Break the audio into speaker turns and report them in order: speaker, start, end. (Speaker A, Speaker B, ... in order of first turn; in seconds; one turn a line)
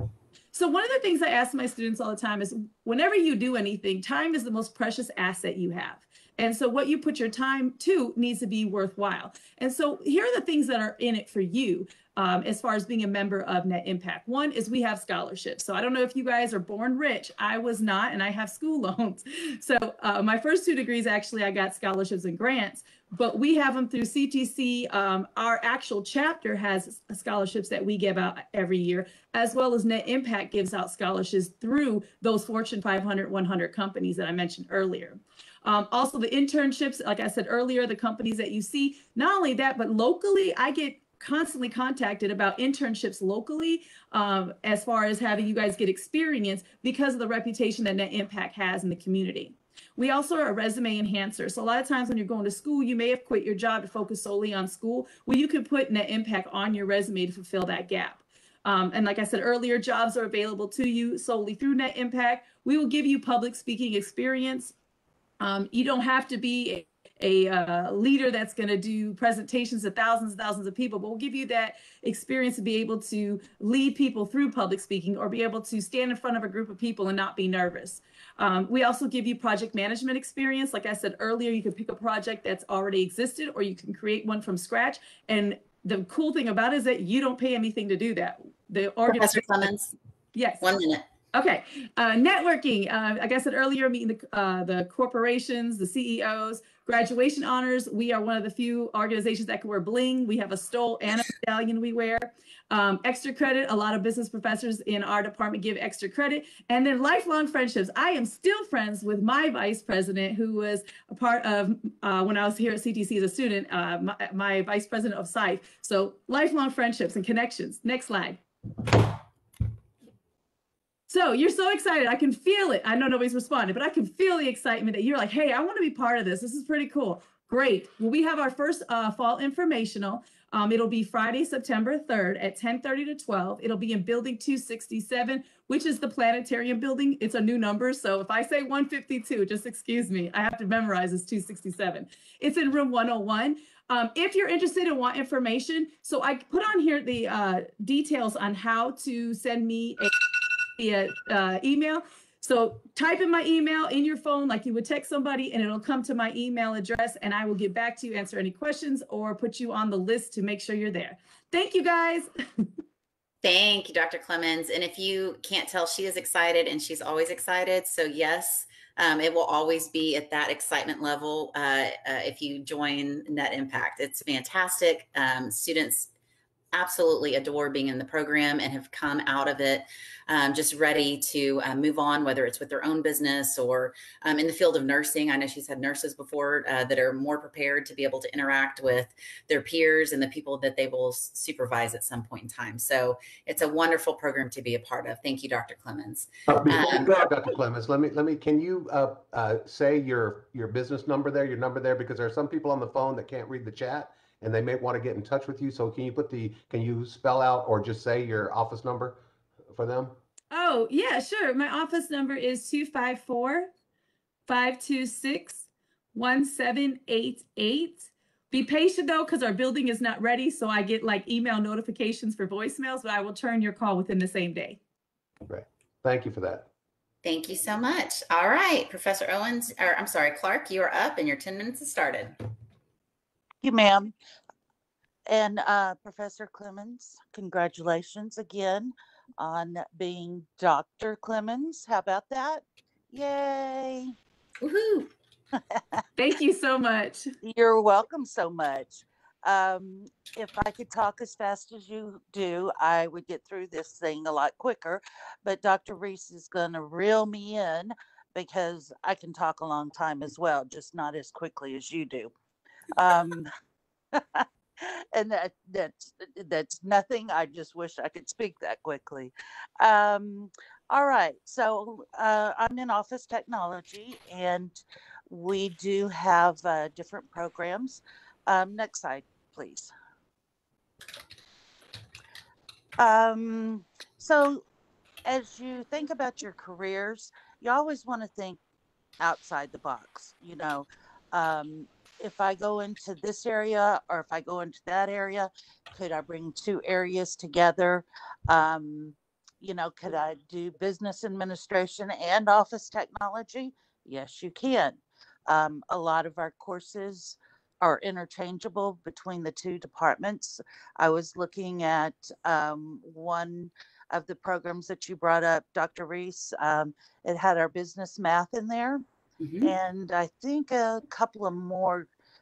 Speaker A: 0.5-64.7
Speaker A: 65.4-89.7
Speaker B: 89.1-89.9
Speaker A: 90.3-90.7
Speaker B: 90.6-91.0
Speaker A: 91.3-118.4
Speaker A: 121.1-150.2
Speaker A: 150.8-162.3
Speaker B: 163.4-176.1
Speaker B: 176.7-197.5
Speaker C: 196.5-209.2
Speaker C: 209.7-210.1
Speaker A: 210.5-213.7
Speaker A: 214.5-224.8
Speaker C: 225.5-226.7
Speaker B: 227.2-232.3
Speaker D: 233.6-234.1
Speaker D: 235.3-244.1
Speaker B: 244.6-245.1
Speaker D: 245.5-246.0
Speaker A: 246.2-247.3
Speaker D: 247.4-262.3
Speaker D: 262.9-263.5
Speaker D: 264.1-279.9
Speaker D: 283.0-284.6
Speaker D: 285.2-288.6
Speaker D: 289.2-319.0
Speaker B: 319.4-319.7
Speaker D: 319.6-322.1